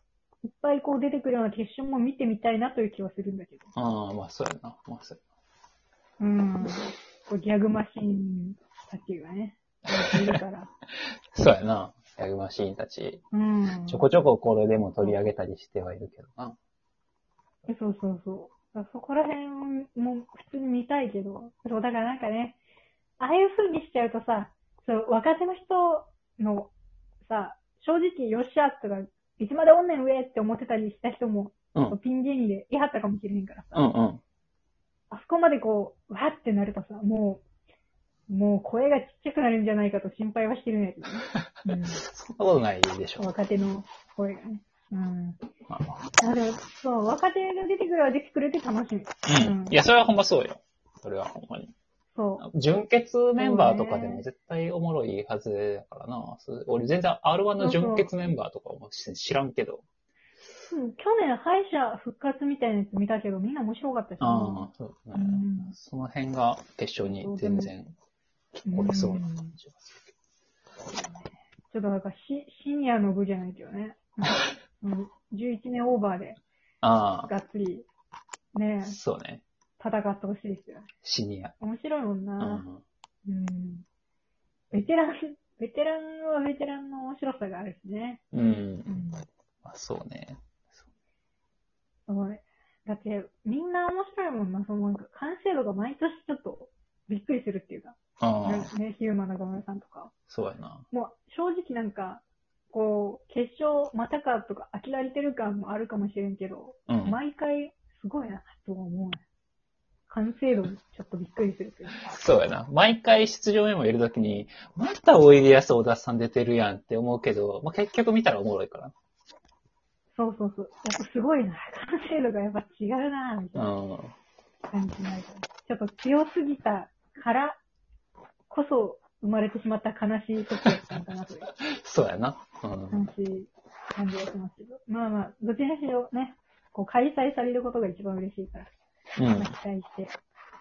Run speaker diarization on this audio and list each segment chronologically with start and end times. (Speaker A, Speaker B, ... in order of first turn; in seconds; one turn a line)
Speaker A: 0.4-3.7
Speaker B: 3.7-5.2
Speaker A: 6.2-10.7
Speaker B: 10.1-10.4
Speaker B: 11.3-13.2
Speaker A: 13.3-14.1
Speaker B: 13.8-16.6
Speaker A: 17.7-22.6
Speaker A: 23.2-26.7
Speaker A: 27.2-33.9
Speaker B: 33.7-34.2
Speaker A: 35.1-37.4
Speaker A: 38.3-42.0
Speaker B: 41.6-43.3
Speaker A: 43.2-45.4
Speaker B: 45.7-46.0
Speaker A: 46.2-49.8
Speaker B: 49.3-51.7
Speaker A: 52.1-52.4
Speaker B: 52.4-59.8
Speaker A: 53.4-54.2
Speaker A: 57.6-58.1
Speaker A: 60.7-65.7
Speaker B: 64.2-67.9
Speaker A: 67.0-67.7
Speaker B: 68.6-70.0
Speaker A: 68.7-69.5
Speaker A: 70.9-76.4
Speaker B: 76.8-77.3
Speaker A: 77.2-77.8
Speaker A: 78.5-79.0
Speaker B: 78.8-79.4
Speaker A: 79.8-80.9
Speaker B: 81.0-81.5
Speaker A: 81.6-82.7
Speaker B: 82.4-82.8
Speaker A: 83.2-83.8
Speaker A: 84.7-88.2
Speaker B: 88.3-89.0
Speaker A: 88.8-89.2
Speaker B: 89.6-90.4
Speaker A: 92.1-100.1
Speaker B: 98.2-98.7
Speaker B: 100.3-100.8
Speaker A: 100.9-109.2
Speaker B: 106.9-107.2
Speaker A: 110.1-112.1
Speaker B: 112.1-118.9
Speaker A: 120.2-123.7
Speaker B: 123.5-124.1
Speaker A: 124.7-127.6
Speaker A: 128.5-131.5
Speaker B: 131.7-133.1
Speaker A: 132.9-138.7
Speaker B: 139.2-139.5
Speaker A: 139.3-140.1